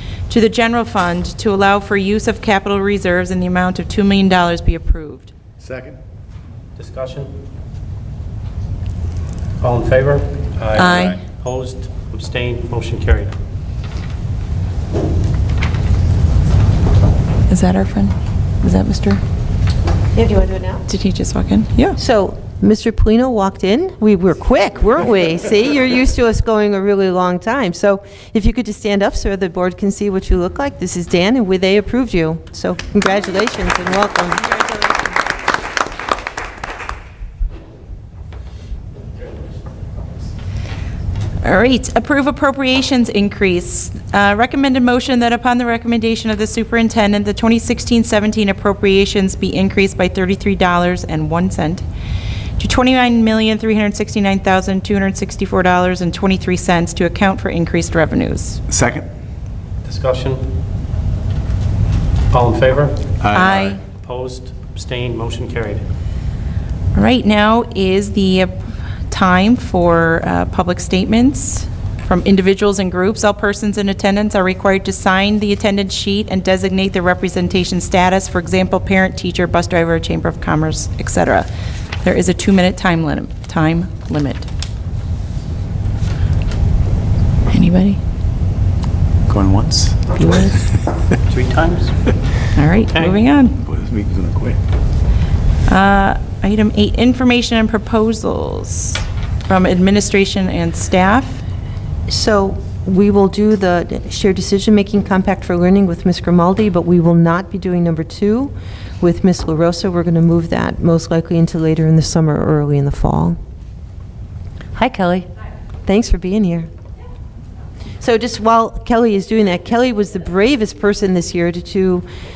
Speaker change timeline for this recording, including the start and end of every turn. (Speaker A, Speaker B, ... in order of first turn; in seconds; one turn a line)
Speaker A: 0.3-5.3
Speaker B: 5.6-6.0
Speaker C: 6.8-7.3
Speaker C: 9.6-13.3
Speaker A: 10.7-11.2
Speaker A: 17.5-19.2
Speaker D: 20.1-20.8
Speaker A: 20.9-22.0
Speaker D: 22.0-34.5
Speaker A: 34.5-34.9
Speaker A: 41.4-51.8
Speaker A: 52.6-58.6
Speaker B: 58.7-59.1
Speaker C: 59.8-60.5
Speaker C: 62.3-65.8
Speaker B: 63.2-63.6
Speaker A: 63.3-63.8
Speaker A: 66.9-68.5
Speaker A: 69.1-81.5
Speaker A: 82.0-84.5
Speaker A: 87.5-88.0
Speaker B: 89.3-91.0
Speaker A: 90.2-90.5
Speaker C: 91.2-92.2
Speaker A: 92.5-93.6
Speaker C: 92.9-93.2
Speaker B: 93.6-94.6
Speaker A: 95.7-101.4
Speaker D: 102.1-113.4
Speaker D: 114.8-115.2
Speaker D: 115.8-116.7
Speaker D: 118.0-122.0